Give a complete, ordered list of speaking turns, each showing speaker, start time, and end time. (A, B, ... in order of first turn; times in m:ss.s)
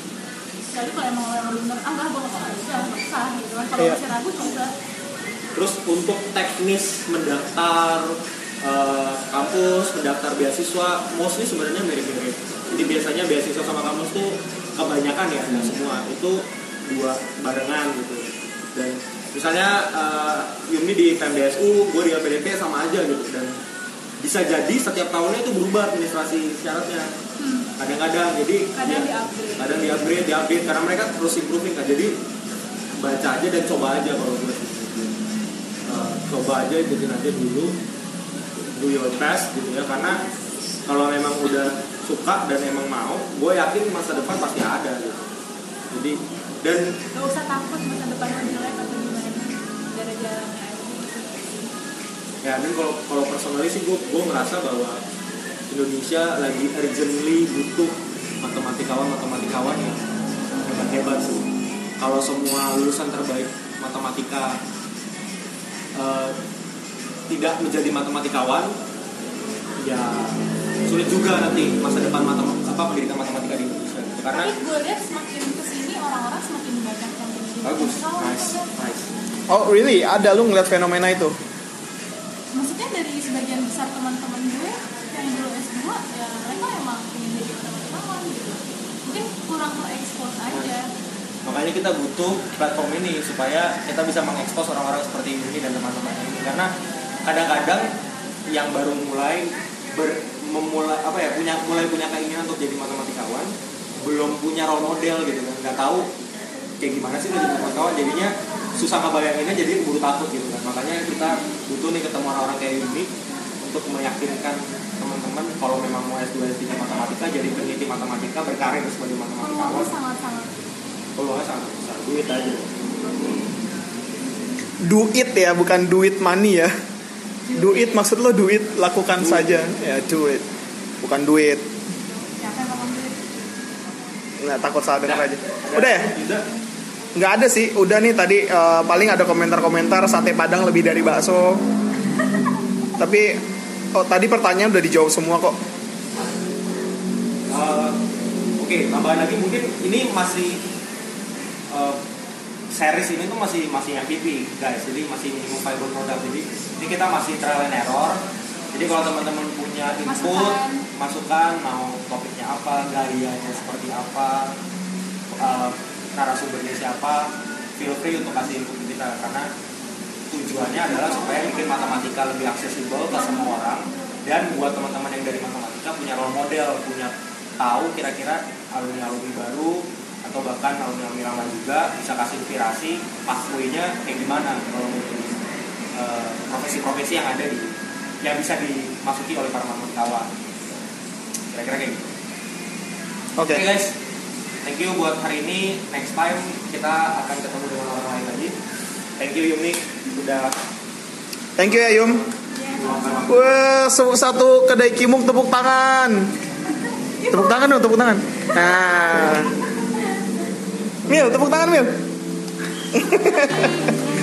0:00.7-0:04.7 A
0:05.6-0:23.5 B
0:24.2-0:27.1 B
0:27.4-0:27.7 A
0:27.8-0:32.1 B
0:28.8-0:29.9 A
0:33.0-0:35.1 B
0:35.8-0:37.7 B
0:38.7-0:40.2 B
0:40.9-0:45.3 B
0:45.9-0:46.9 B
0:47.1-0:51.7 A
0:52.4-0:55.0 B
0:55.7-1:00.0 B
1:00.6-1:01.4 B
1:02.0-1:04.6 B
1:06.0-1:06.4 B
1:07.3-1:08.7 B
1:09.8-1:14.5 B
1:14.3-1:18.7 A
1:17.6-1:19.1 B
1:19.5-1:21.4 C
1:22.5-1:30.9 A
1:31.4-1:36.7 B
1:37.2-1:37.9 B
1:38.5-1:46.1 B
1:46.8-1:53.1 B
1:53.6-1:59.9 B
1:59.4-2:00.7 A
2:01.2-2:02.7 B
2:04.9-2:06.7 C
2:07.5-2:08.0 A
2:07.6-2:10.4 C
2:09.2-2:09.6 B
2:11.0-2:11.7 C
2:12.4-2:13.3 A
2:14.4-2:16.1 C
2:15.1-2:16.4 B
2:17.2-2:21.6 C
2:23.0-2:23.4 C
2:23.9-2:25.6 C
2:27.5-2:28.0 B
2:28.6-2:30.6 B
2:31.7-2:32.0 B
2:32.7-2:38.2 B
2:38.7-2:44.5 B
2:40.0-2:40.8 A
2:45.3-2:49.5 B
2:50.3-3:05.4 B
2:51.0-2:52.0 A
2:53.1-2:54.2 A
3:06.0-3:07.7 B
3:08.2-3:10.3 B
3:11.5-3:12.1 B
3:13.4-3:13.6 C
3:13.4-3:13.9 B
3:14.6-3:18.6 B
3:19.2-3:20.5 B
3:21.6-3:22.2 C
3:21.6-3:22.3 B
3:22.5-3:23.5 A
3:22.8-3:23.6 B
3:23.3-3:26.3 C
3:27.2-3:27.9 A
3:27.3-3:29.5 C
3:28.6-3:30.2 A
3:31.1-3:32.0 C
3:32.9-3:34.0 C